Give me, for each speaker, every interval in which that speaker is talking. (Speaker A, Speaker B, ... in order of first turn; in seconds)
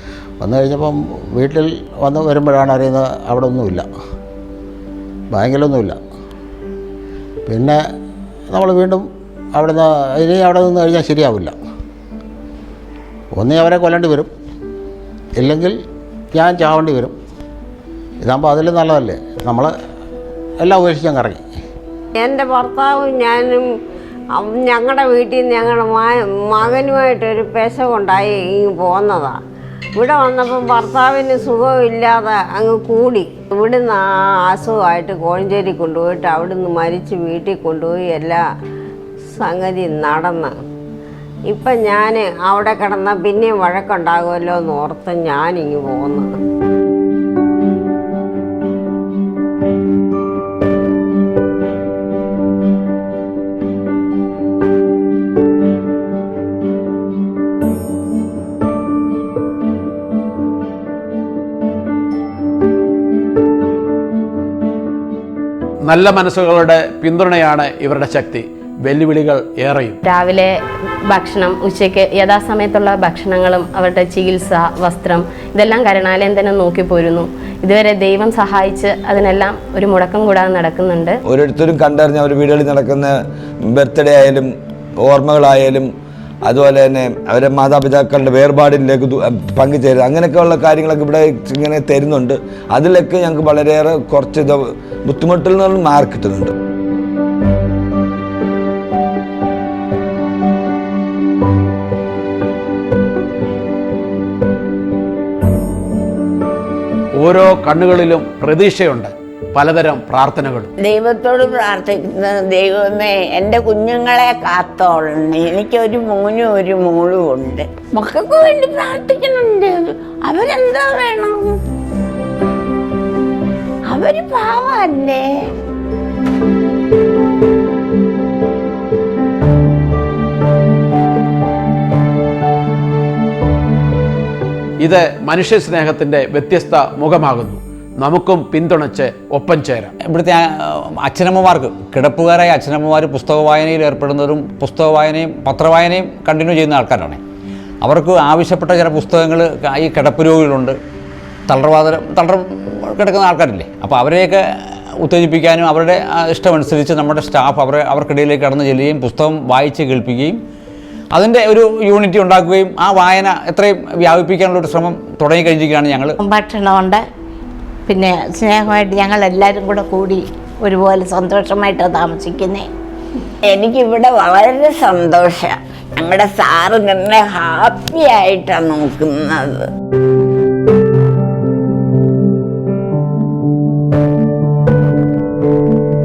Speaker A: 0.4-3.9, 5.3-6.0, 7.5-7.8, 8.5-11.6, 13.3-14.3, 15.4-15.8, 16.3-17.1, 18.2-19.7, 20.6-21.4
Speaker B: 22.2-23.6, 24.4-29.4, 30.0-38.4, 39.3-40.5, 41.5-46.3
Speaker C: 65.9-70.0, 107.2-110.7, 134.8-139.9
Speaker D: 70.0-70.5, 71.1-81.2
Speaker E: 81.3-83.1, 83.7-84.5, 85.0-85.9, 86.5-96.5
Speaker F: 110.8-121.6, 123.9-125.2, 173.5-179.6
Speaker G: 140.0-147.2, 147.8-150.8, 151.5-154.4, 155.0-160.4, 161.1-166.2
Speaker H: 166.2-167.1, 167.9-172.7